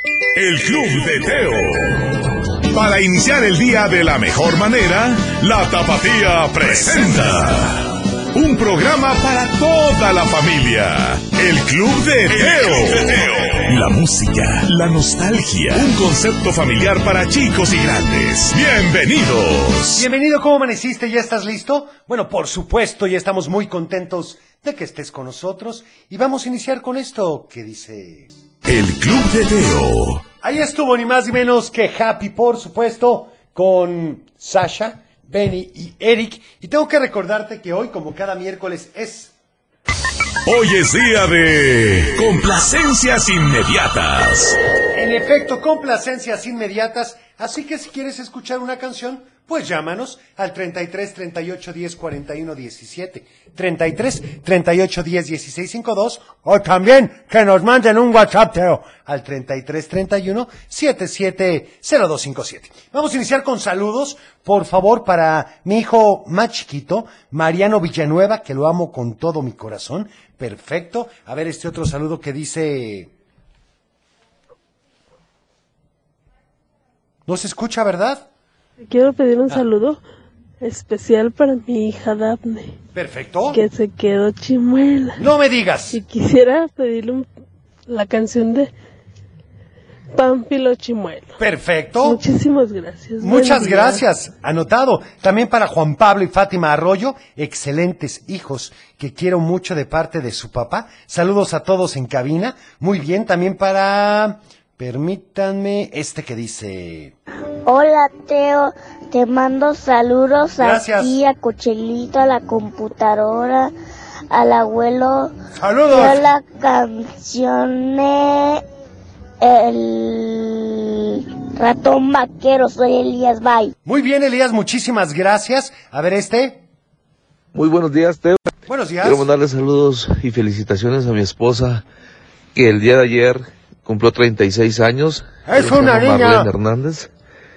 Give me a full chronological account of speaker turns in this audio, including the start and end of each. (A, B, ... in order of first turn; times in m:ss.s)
0:00.3-0:02.0 A
0:02.7-0:20.0 A
0:06.6-0:07.2 B
0:20.0-0:28.3 B
0:28.6-0:30.2 A
0:30.4-0:39.3 B
0:40.4-0:44.6 A
0:44.9-1:13.1 B
1:17.3-1:18.3 B
1:18.9-1:20.0 C
1:20.6-1:22.8 C
1:22.9-1:23.6 B
1:23.5-1:25.2 C
1:25.2-1:26.0 B
1:25.9-1:27.3 C
1:27.9-1:28.7 C
1:30.1-1:31.4 C
1:31.4-1:32.2 B
1:32.0-1:34.0 C
1:33.2-1:47.1 B
1:47.6-1:53.7 D
1:50.6-1:51.1 B
1:54.3-1:55.3 D
1:55.5-1:56.2 B
1:55.9-1:58.6 D
1:59.4-2:03.7 D
2:03.8-2:06.6 B
2:07.5-2:08.4 E
2:08.7-2:09.2 B
2:09.0-2:11.8 E
2:12.5-2:17.1 E
2:15.4-2:16.5 B